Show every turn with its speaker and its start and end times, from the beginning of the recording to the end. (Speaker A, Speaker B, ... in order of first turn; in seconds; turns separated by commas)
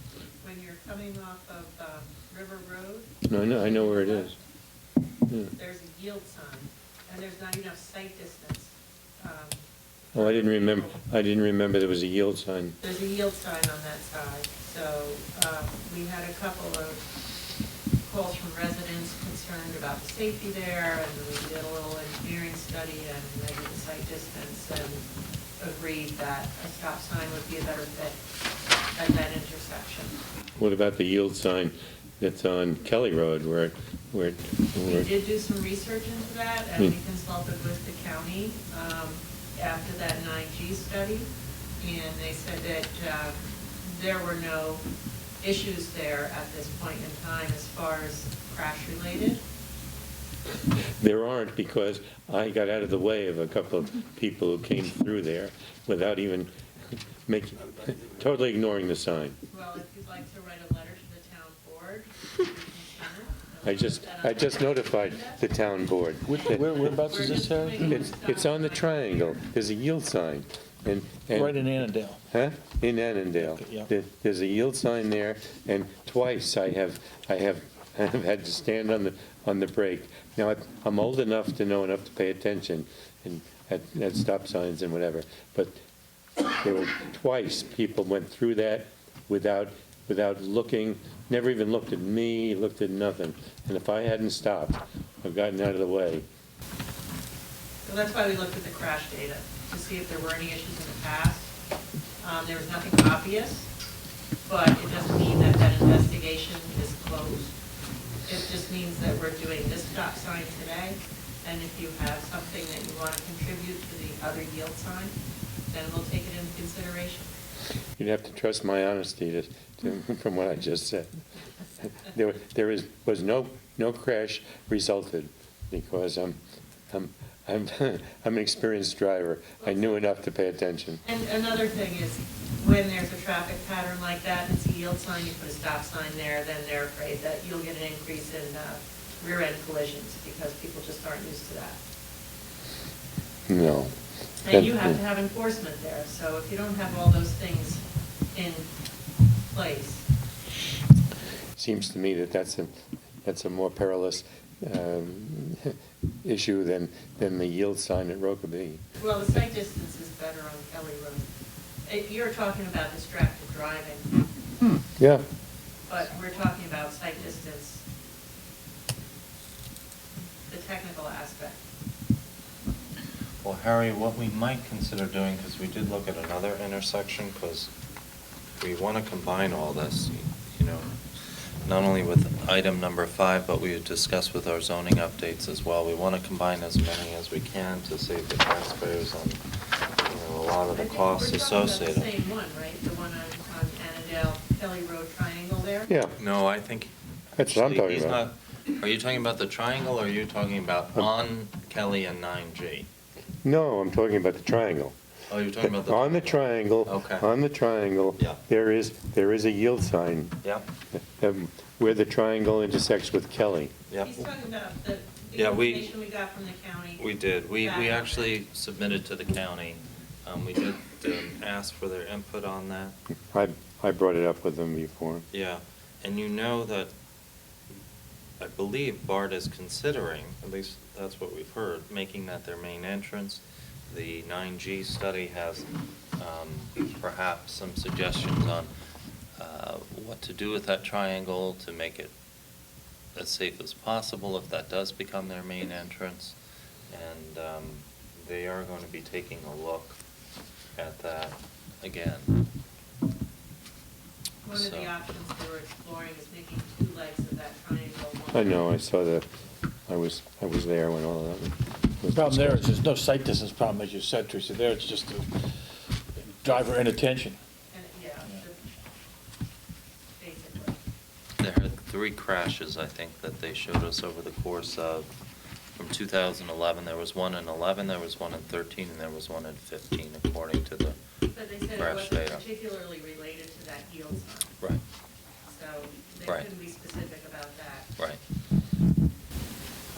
Speaker A: 0.4-4.3, Speaker B: 3.3-4.3, Speaker A: 5.5-11.0, Speaker B: 10.1-12.8, Speaker A: 12.8-17.1, Speaker A: 18.0-25.1, Speaker A: 25.6-28.2, Speaker A: 28.9-30.2, Speaker B: 30.6-35.1, Speaker A: 34.8-44.8, Speaker A: 45.4-49.4, Speaker B: 51.0-56.5, Speaker B: 57.3-59.4, Speaker A: 59.5-65.4, Speaker B: 63.6-67.0, Speaker C: 66.3-68.0, Speaker A: 66.5-69.2, Speaker B: 67.8-71.7, Speaker C: 71.3-72.2, Speaker B: 72.3-85.7, Speaker C: 73.4-73.9, Speaker B: 86.6-96.2, Speaker A: 97.8-101.5, Speaker A: 102.2-103.7, Speaker A: 104.5-107.6, Speaker A: 108.2-115.1, Speaker A: 115.7-117.3, Speaker B: 118.0-121.2, Speaker B: 121.8-126.4, Speaker B: 126.9-131.0, Speaker A: 129.6-129.9, Speaker A: 131.0-141.8, Speaker B: 143.5-143.9, Speaker A: 144.4-148.7, Speaker B: 144.5-145.0, Speaker A: 149.5-150.1, Speaker B: 151.6-152.7, Speaker B: 153.2-158.8, Speaker A: 159.0-161.3, Speaker A: 161.8-164.1, Speaker B: 165.0-165.2, Speaker A: 165.9-167.8, Speaker A: 170.5-171.6, Speaker D: 173.4-177.7, Speaker D: 178.6-189.4, Speaker D: 190.0-192.1, Speaker A: 190.7-195.9, Speaker B: 195.9-196.1, Speaker D: 196.2-202.9, Speaker B: 197.3-198.2, Speaker B: 203.4-204.9, Speaker D: 205.3-207.2, Speaker B: 205.6-210.3, Speaker B: 211.1-213.7, Speaker D: 213.9-214.2, Speaker A: 214.0-217.0, Speaker D: 215.3-215.9, Speaker D: 217.0-223.0, Speaker A: 217.6-218.3, Speaker B: 223.3-225.2, Speaker D: 225.3-226.9, Speaker D: 228.4-238.7, Speaker D: 239.4-242.1, Speaker D: 243.1-246.3, Speaker D: 246.9-250.0, Speaker D: 250.8-252.4, Speaker A: 254.4-258.6, Speaker D: 254.5-254.9, Speaker B: 258.3-259.2, Speaker B: 259.9-262.7, Speaker C: 262.1-265.6, Speaker C: 266.1-267.4, Speaker A: 266.5-266.8, Speaker A: 267.7-268.7, Speaker A: 270.2-270.8, Speaker D: 271.4-275.1, Speaker D: 275.8-281.0, Speaker A: 281.3-284.6, Speaker D: 281.8-282.4, Speaker A: 285.4-287.9